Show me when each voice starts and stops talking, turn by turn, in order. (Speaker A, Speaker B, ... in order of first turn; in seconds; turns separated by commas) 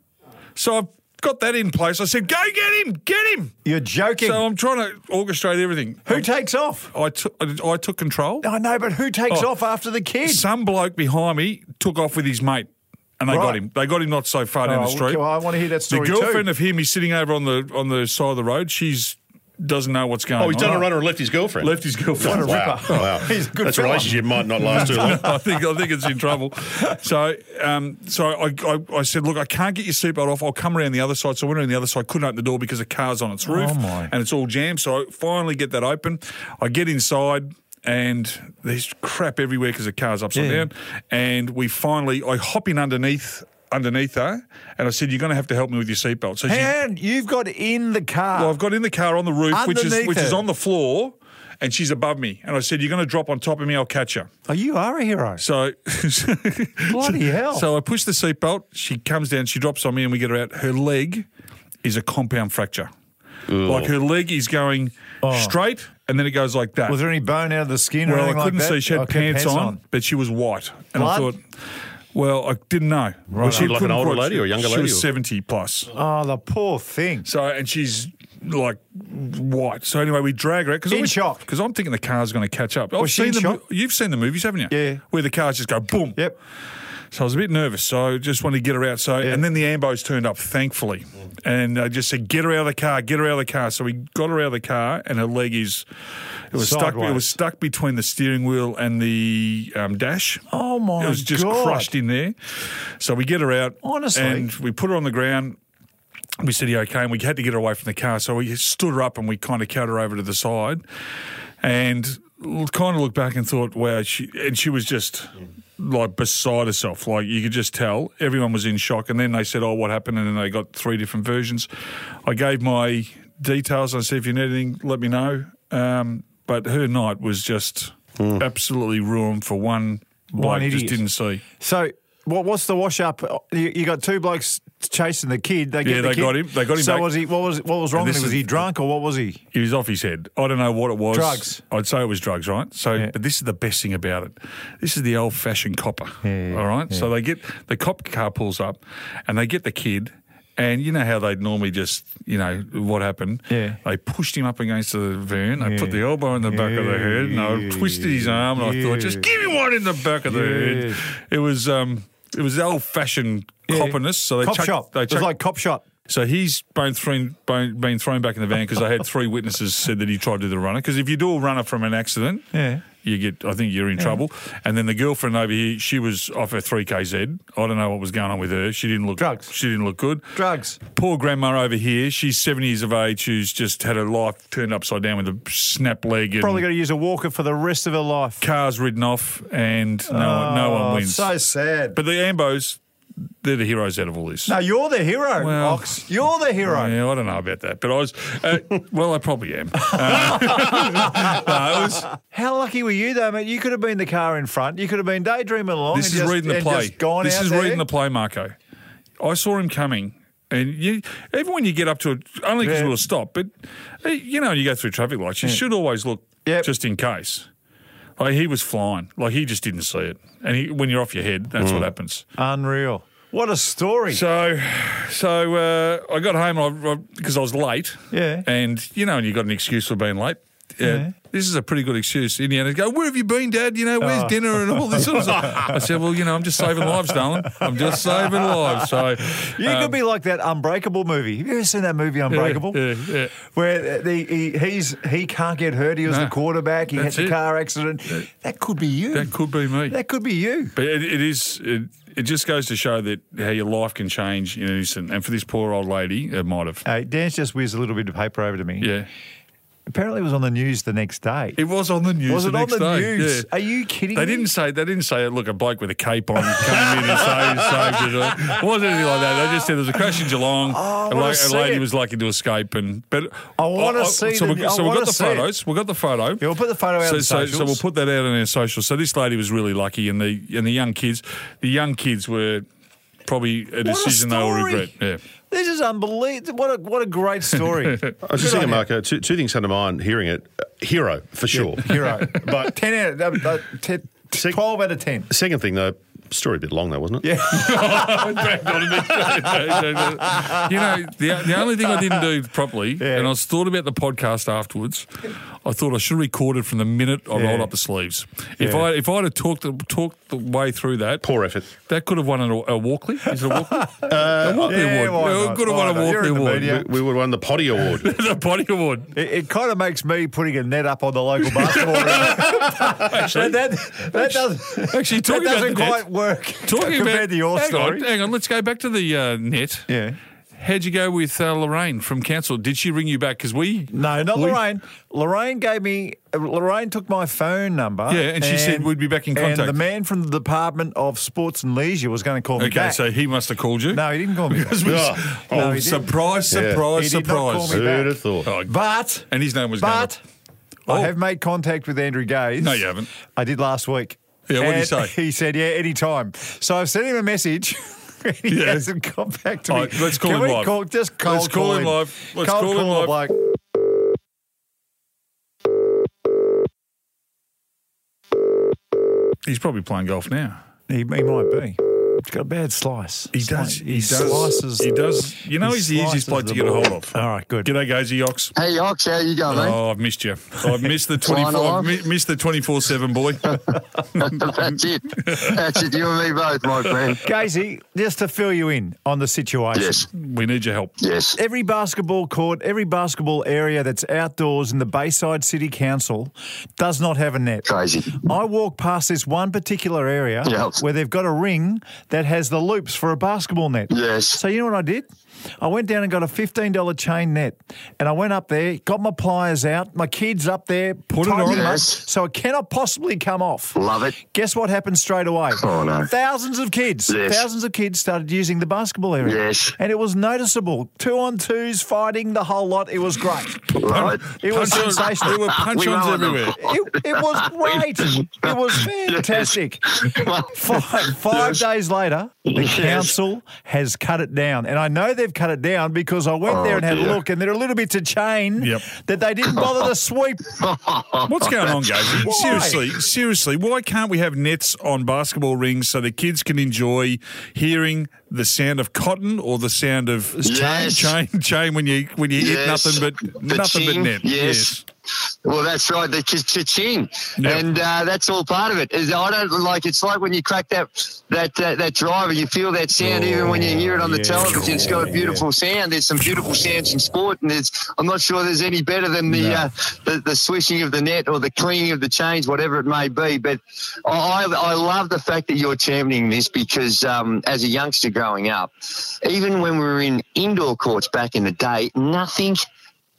Speaker A: 0.6-3.5, Speaker B: 3.6-4.4, Speaker A: 4.2-6.2, Speaker B: 6.1-6.9, Speaker A: 6.9-8.5, Speaker B: 8.4-10.4, Speaker A: 10.2-15.3, Speaker B: 13.3-13.6, Speaker B: 14.6-16.5, Speaker A: 15.9-21.0, Speaker C: 20.4-25.3, Speaker B: 20.6-20.9, Speaker A: 21.6-23.2, Speaker B: 22.2-25.3, Speaker A: 24.6-46.7, Speaker B: 33.5-34.1, Speaker B: 40.3-40.7, Speaker B: 46.5-48.5, Speaker A: 48.3-54.3, Speaker B: 49.5-50.4, Speaker B: 54.5-55.4, Speaker A: 55.4-61.3, Speaker B: 56.9-57.7, Speaker A: 61.8-62.9, Speaker C: 63.5-63.9, Speaker A: 63.6-67.0, Speaker B: 65.2-65.5, Speaker B: 66.9-69.8, Speaker A: 68.0-71.4, Speaker B: 70.9-71.3, Speaker A: 72.1-75.9, Speaker B: 73.3-73.8, Speaker C: 73.4-75.0, Speaker B: 75.9-77.3, Speaker A: 77.2-86.2, Speaker B: 80.9-81.4, Speaker B: 83.0-83.6, Speaker B: 84.7-85.0, Speaker A: 87.1-95.8, Speaker A: 96.5-100.4, Speaker B: 96.5-97.3, Speaker B: 100.5-101.9, Speaker A: 101.0-102.4, Speaker A: 103.0-105.6, Speaker B: 103.8-104.5, Speaker A: 106.4-110.8, Speaker A: 111.6-121.7, Speaker A: 122.2-131.4, Speaker C: 128.2-128.4, Speaker B: 130.3-131.0, Speaker B: 131.6-139.4, Speaker A: 135.8-137.2, Speaker A: 137.9-138.7, Speaker A: 139.5-165.3, Speaker B: 141.1-141.6, Speaker B: 146.2-147.1, Speaker B: 153.5-153.8, Speaker B: 155.6-159.3, Speaker B: 160.3-161.0, Speaker B: 163.7-165.8, Speaker A: 166.1-186.7, Speaker B: 172.5-172.8, Speaker B: 179.2-179.5, Speaker B: 180.3-180.8, Speaker B: 186.4-188.4, Speaker A: 188.4-191.3, Speaker B: 190.1-192.0, Speaker A: 191.9-192.8, Speaker A: 193.4-194.6, Speaker B: 194.5-196.9, Speaker A: 195.4-196.1, Speaker A: 196.6-202.1, Speaker B: 200.2-201.1, Speaker B: 202.2-207.8, Speaker A: 205.9-208.5, Speaker A: 209.2-213.5, Speaker B: 212.6-212.9, Speaker A: 214.0-217.5, Speaker B: 216.4-216.7, Speaker A: 218.2-222.2, Speaker C: 221.6-221.9, Speaker B: 222.4-224.2, Speaker A: 224.1-240.0, Speaker B: 228.1-228.4, Speaker B: 230.8-231.1, Speaker B: 234.0-235.8, Speaker B: 237.4-242.8, Speaker A: 242.3-243.3, Speaker B: 243.4-250.7, Speaker A: 246.1-246.4, Speaker A: 246.9-247.4, Speaker A: 249.1-250.0, Speaker A: 250.7-256.8, Speaker B: 256.8-258.9, Speaker A: 258.8-259.1, Speaker B: 259.9-261.6, Speaker A: 261.6-263.5, Speaker B: 262.3-264.5, Speaker A: 264.1-276.5, Speaker B: 270.6-271.8, Speaker B: 273.6-275.5, Speaker B: 276.4-277.8, Speaker A: 277.0-282.7, Speaker A: 283.2-285.2, Speaker B: 283.8-284.9, Speaker B: 285.5-288.8, Speaker A: 287.6-288.1, Speaker C: 288.2-292.7, Speaker B: 291.5-295.3, Speaker C: 295.3-297.2, Speaker B: 297.2-300.6, Speaker A: 297.5-305.1, Speaker B: 303.0-303.3, Speaker A: 305.6-316.8, Speaker B: 307.3-307.7, Speaker B: 308.6-308.9, Speaker C: 311.2-311.7, Speaker B: 313.8-314.1, Speaker C: 314.1-314.8, Speaker B: 314.6-316.9, Speaker C: 316.6-318.1, Speaker A: 318.0-319.1, Speaker B: 319.1-328.1, Speaker A: 321.4-326.1, Speaker A: 326.6-329.9, Speaker B: 329.9-330.2, Speaker A: 330.5-334.6, Speaker B: 333.9-343.0, Speaker A: 338.1-339.8, Speaker A: 342.6-347.9, Speaker B: 343.9-344.9, Speaker C: 344.8-345.7, Speaker B: 345.5-346.1, Speaker C: 346.5-346.9, Speaker B: 346.8-350.2, Speaker C: 347.7-348.5, Speaker A: 348.4-348.7, Speaker A: 349.3-350.1, Speaker A: 350.9-351.1, Speaker B: 350.9-363.4, Speaker A: 352.6-353.1, Speaker A: 354.5-355.1, Speaker A: 358.5-358.9, Speaker A: 359.7-363.2, Speaker A: 369.4-370.6, Speaker B: 370.9-374.9, Speaker A: 373.3-378.5, Speaker B: 375.6-377.7, Speaker D: 378.6-379.8, Speaker A: 379.5-383.8, Speaker D: 381.2-381.9, Speaker D: 383.5-387.2, Speaker A: 385.2-385.6, Speaker B: 387.2-390.0, Speaker D: 389.7-390.1, Speaker A: 390.1-390.9, Speaker D: 391.0-391.4, Speaker B: 391.4-397.7, Speaker D: 397.6-398.2, Speaker B: 398.2-405.1, Speaker D: 400.4-400.8, Speaker D: 403.9-404.4, Speaker B: 405.6-423.7, Speaker A: 411.1-411.8, Speaker D: 411.4-412.0, Speaker D: 413.8-414.2, Speaker D: 415.6-416.1, Speaker D: 417.1-417.4, Speaker D: 419.2-419.8, Speaker D: 423.7-431.6, Speaker A: 423.8-426.6, Speaker B: 424.3-425.4, Speaker B: 426.6-429.8, Speaker B: 430.5-440.4, Speaker D: 432.5-433.1, Speaker D: 436.5-437.2, Speaker A: 438.6-438.8, Speaker D: 440.6-441.8, Speaker A: 441.2-454.8, Speaker B: 442.2-442.8, Speaker D: 450.4-451.1, Speaker D: 452.4-454.8, Speaker D: 455.4-478.7, Speaker A: 457.4-457.7, Speaker B: 463.0-465.4, Speaker B: 469.3-469.7, Speaker D: 479.2-482.6